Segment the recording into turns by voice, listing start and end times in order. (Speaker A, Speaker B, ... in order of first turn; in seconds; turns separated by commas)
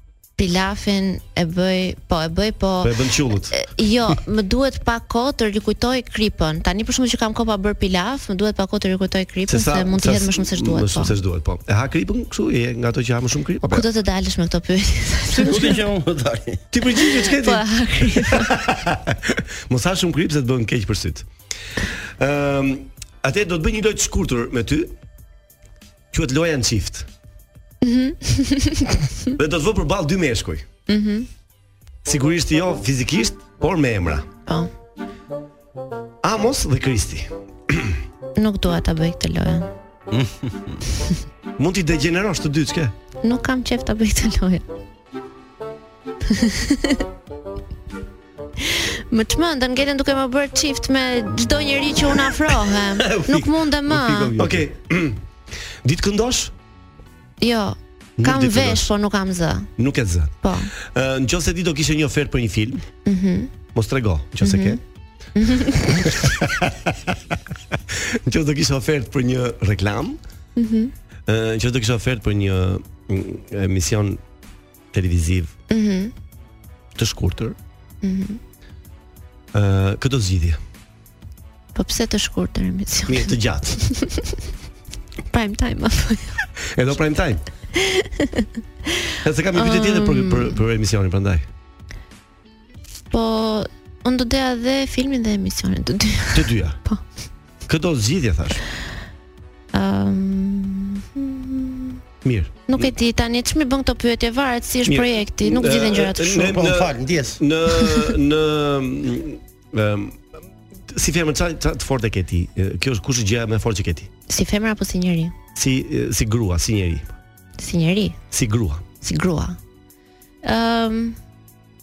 Speaker A: 0.4-11.2, Speaker B: 2.8-3.6, Speaker B: 9.5-13.9, Speaker A: 13.7-15.8, Speaker B: 15.4-15.8, Speaker C: 15.4-16.6, Speaker B: 16.7-21.3, Speaker A: 16.9-18.5, Speaker B: 22.2-24.9, Speaker B: 26.1-27.1, Speaker A: 27.8-29.3, Speaker B: 29.4-30.7, Speaker A: 30.9-31.3, Speaker B: 32.0-34.3, Speaker B: 36.2-38.0, Speaker A: 38.4-39.7, Speaker C: 40.1-40.8, Speaker B: 41.6-42.9, Speaker A: 43.2-44.6, Speaker A: 46.3-47.0, Speaker A: 48.6-54.4, Speaker C: 53.0-54.6, Speaker B: 54.3-55.2, Speaker B: 55.8-56.5, Speaker A: 57.4-59.7, Speaker B: 58.2-58.8, Speaker B: 59.8-62.9, Speaker A: 60.4-60.7, Speaker A: 63.0-63.5, Speaker B: 63.7-64.8, Speaker A: 64.4-64.8, Speaker A: 65.3-66.2, Speaker B: 66.0-70.2, Speaker A: 70.5-70.9, Speaker B: 71.3-74.2, Speaker B: 74.9-75.5, Speaker A: 75.7-76.1, Speaker B: 76.9-77.6, Speaker A: 78.0-78.4, Speaker B: 79.5-80.6, Speaker A: 81.7-84.3, Speaker B: 83.1-83.8, Speaker A: 85.3-86.4, Speaker B: 86.7-87.5, Speaker A: 87.7-88.5, Speaker B: 89.2-91.5, Speaker A: 89.5-90.6, Speaker A: 93.1-97.0, Speaker B: 96.3-96.8, Speaker B: 97.7-98.6, Speaker A: 99.7-102.0, Speaker B: 102.2-102.9, Speaker A: 102.7-106.6, Speaker B: 104.8-110.4, Speaker C: 106.4-107.4, Speaker A: 107.8-108.1, Speaker B: 110.9-114.1, Speaker A: 114.3-115.3, Speaker B: 115.5-117.2, Speaker A: 117.6-118.2, Speaker B: 118.3-118.8, Speaker A: 119.0-119.6, Speaker A: 120.4-121.2